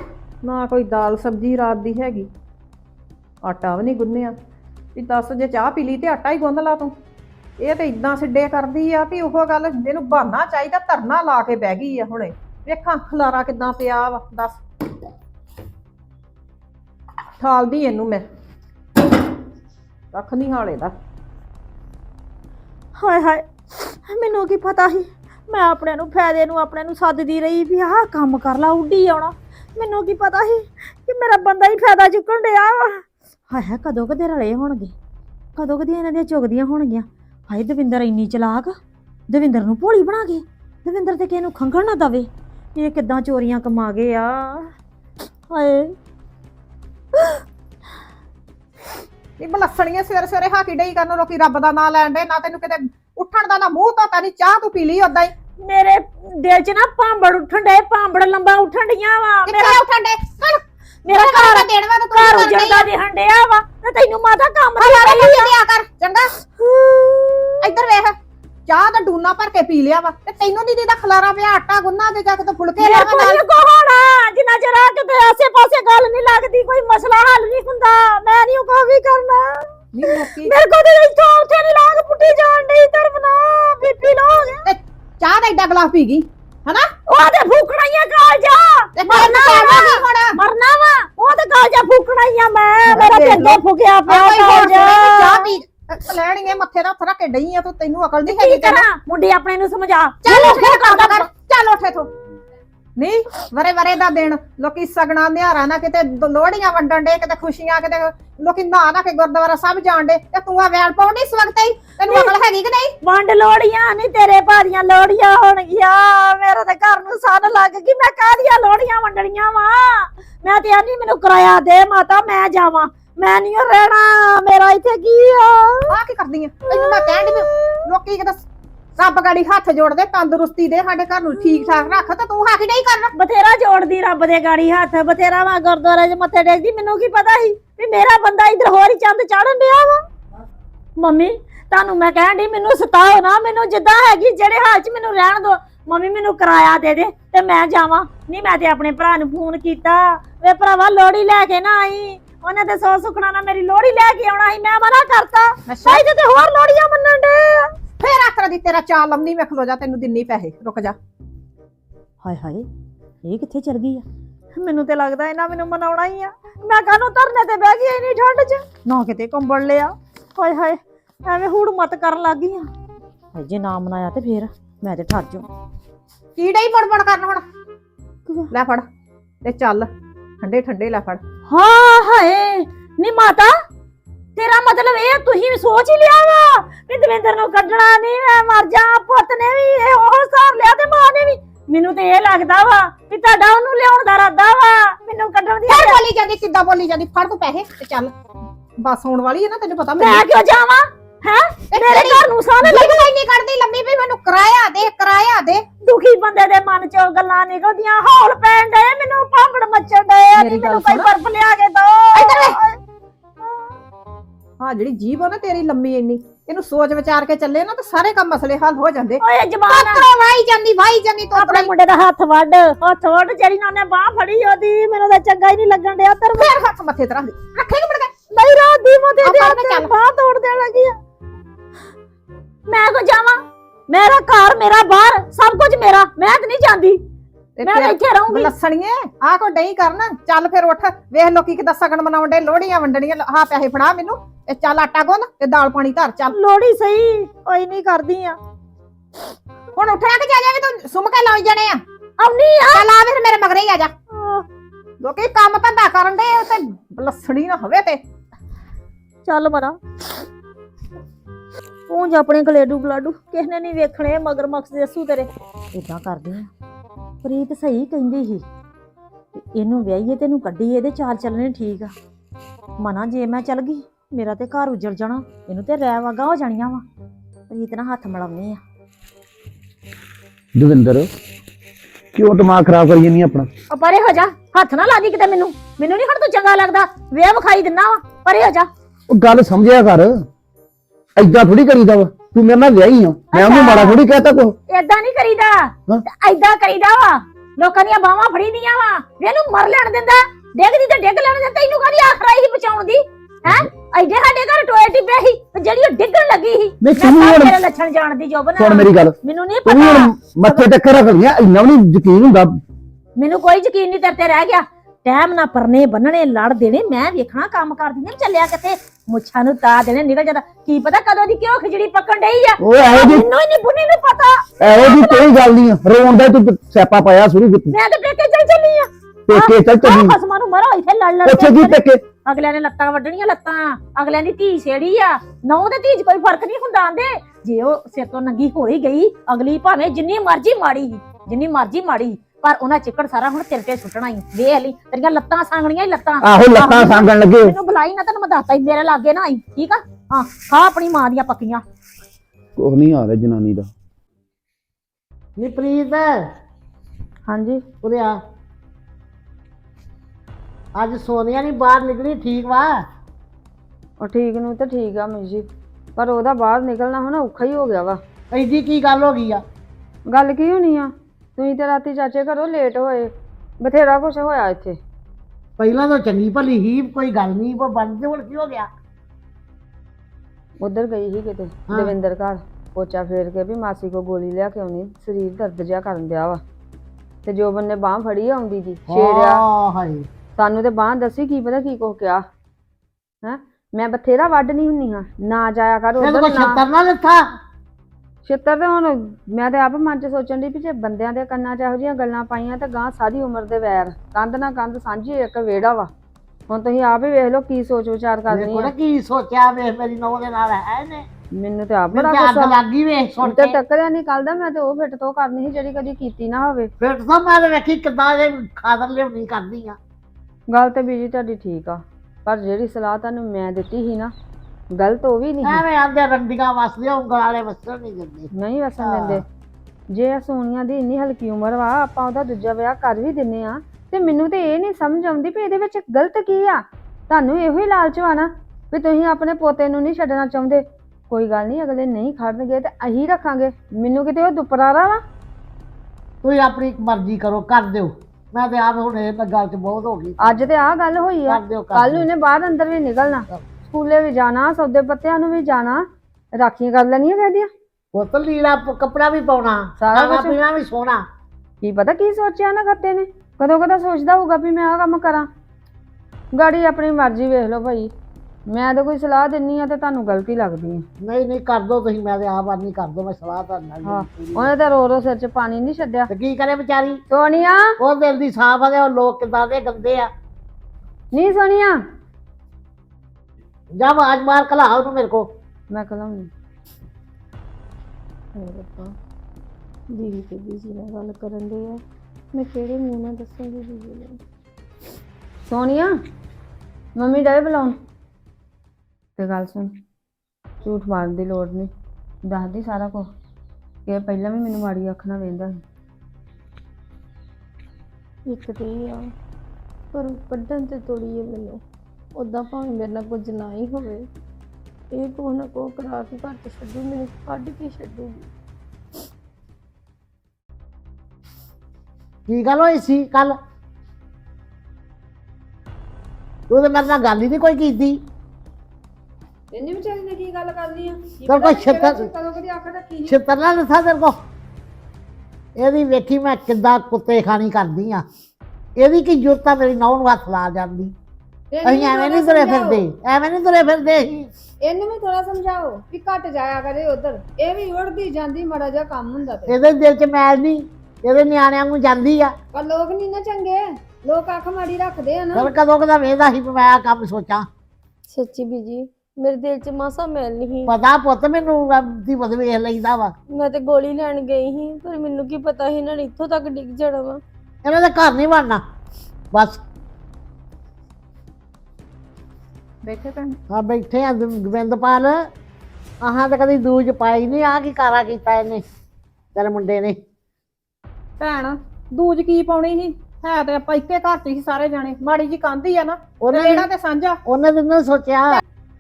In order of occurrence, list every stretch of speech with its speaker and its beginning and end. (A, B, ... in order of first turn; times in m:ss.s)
0:00.4-0:02.3 A
0:03.4-0:04.4 A
0:05.0-0:07.0 A
0:07.6-0:14.6 A
0:17.4-0:18.2 A
0:20.1-0:21.0 A
0:23.0-0:34.9 B
0:35.6-0:38.8 B
0:39.3-0:44.7 B
0:45.5-0:45.9 B
0:47.2-0:47.4 B
0:49.4-0:55.3 A
0:55.6-0:59.8 B
0:59.5-1:02.9 A
1:01.1-1:05.6 B
1:04.8-1:06.3 A
1:06.6-1:07.8 B
1:07.6-1:08.2 A
1:08.7-1:13.4 A
1:12.8-1:24.7 B
1:19.9-1:20.5 A
1:24.7-1:26.9 A
1:27.1-1:35.5 B
1:29.0-1:30.4 A
1:32.9-1:38.8 A
1:38.3-1:41.3 B
1:40.2-1:42.1 A
1:43.0-1:52.9 A
1:52.1-1:52.4 B
1:53.0-2:06.0 B
2:05.9-2:13.1 A
2:06.7-2:07.5 B
2:13.2-2:20.0 B
2:21.0-2:37.7 B
2:35.7-2:36.0 A
2:38.0-2:41.0 A
2:42.2-2:42.6 B
2:43.2-2:44.0 B
2:44.6-2:52.7 B
2:53.3-2:55.5 B
2:56.4-2:57.4 A
2:58.5-2:58.9 A
2:59.4-2:59.9 A
3:00.4-3:01.2 A
3:01.5-3:03.5 B
3:04.4-3:16.0 B
3:15.7-3:18.1 A
3:18.8-3:20.3 A
3:20.0-3:23.1 B
3:21.7-3:25.6 A
3:25.8-3:32.8 B
3:30.4-3:31.1 A
3:32.2-3:32.6 A
3:33.4-3:33.7 B
3:34.6-3:41.7 A
3:39.2-3:40.1 B
3:41.4-3:46.6 B
3:46.4-3:48.2 A
3:48.3-3:51.0 B
3:49.2-3:49.9 A
3:52.7-3:57.0 B
3:57.6-4:06.4 A
3:57.6-3:58.5 B
4:06.3-4:08.4 B
4:09.8-4:11.8 A
4:12.2-4:12.9 B
4:12.7-4:13.9 A
4:14.1-4:14.4 B
4:15.0-4:18.0 A
4:19.2-4:19.8 B
4:21.9-4:26.5 B
4:27.2-4:28.4 B
4:29.4-4:31.9 B
4:32.8-4:36.8 B
4:37.5-4:38.6 B
4:40.6-4:41.1 C
4:42.1-4:43.5 C
4:43.7-4:48.7 B
4:49.1-4:50.3 C
4:51.2-4:54.6 C
4:53.3-4:54.0 B
4:54.7-5:10.7 B
5:06.8-5:07.6 C
5:08.6-5:12.6 C
5:13.2-5:25.3 B
5:22.6-5:23.3 C
5:24.6-5:27.8 C
5:27.7-5:51.6 B
5:29.3-5:30.2 C
5:31.2-5:32.0 C
5:46.2-5:47.6 C
5:52.6-5:53.7 C
5:55.4-5:56.1 D
5:57.3-5:57.6 E
5:57.8-5:58.2 D
6:00.8-6:02.8 D
6:04.0-6:08.0 E
6:08.3-6:09.4 D
6:10.1-6:14.8 E
6:15.6-6:18.7 D
6:20.6-6:26.4 E
6:21.7-6:22.0 D
6:27.2-6:29.4 E
6:28.9-6:30.0 D
6:30.4-6:32.2 E
6:33.2-6:36.6 E
6:36.0-6:37.2 D
6:38.2-6:45.9 E
6:46.5-6:48.7 E
6:48.3-6:51.1 D
6:51.4-6:52.6 E
6:51.9-6:53.6 D
6:53.2-6:56.7 E
6:56.8-6:59.8 D
7:00.5-7:04.1 E
7:04.8-7:05.6 E
7:05.4-7:09.2 D
7:08.3-7:09.2 E
7:09.9-7:25.0 E
7:26.2-7:30.5 D
7:30.2-7:35.8 E
7:31.3-7:32.1 D
7:36.4-7:37.5 E
7:37.9-7:41.0 D
7:39.8-7:40.4 E
7:41.6-7:45.3 E
7:46.3-7:47.9 E
7:48.5-7:50.9 E
7:51.0-7:54.5 D
7:53.8-7:56.1 E
7:56.1-7:57.0 D
7:57.1-7:57.8 E
7:57.8-8:00.1 D
8:01.1-8:01.8 E
8:03.8-8:05.2 D
8:05.7-8:06.3 E
8:08.4-8:08.9 F
8:09.9-8:11.8 F
8:12.3-8:14.2 F
8:15.5-8:15.9 E
8:17.0-8:17.8 E
8:19.2-8:19.7 E
8:20.6-8:21.7 E
8:22.3-8:23.1 E
8:23.9-8:25.6 E
8:28.3-8:29.1 F
8:29.9-8:31.6 F
8:32.2-8:34.0 F
8:34.9-8:38.3 F
8:42.3-8:43.4 D
8:46.5-8:48.0 D
8:49.5-8:53.2 E
8:51.3-8:52.1 D
8:53.1-8:54.2 D
8:55.6-8:58.0 D
8:58.8-9:00.9 D
9:01.5-9:02.8 E
9:01.6-9:04.3 D
9:04.6-9:09.6 E
9:09.5-9:12.3 D
9:12.5-9:15.5 E
9:15.3-9:17.5 D
9:18.1-9:20.7 F
9:20.7-9:23.1 D
9:23.3-9:27.2 F
9:27.6-9:28.6 D
9:29.3-9:29.6 D
9:32.8-9:33.4 A
9:33.5-9:35.2 D
9:36.0-9:38.6 D
9:39.4-9:40.0 D
9:41.2-9:47.2 A
9:46.2-9:46.7 D
9:47.3-9:48.4 D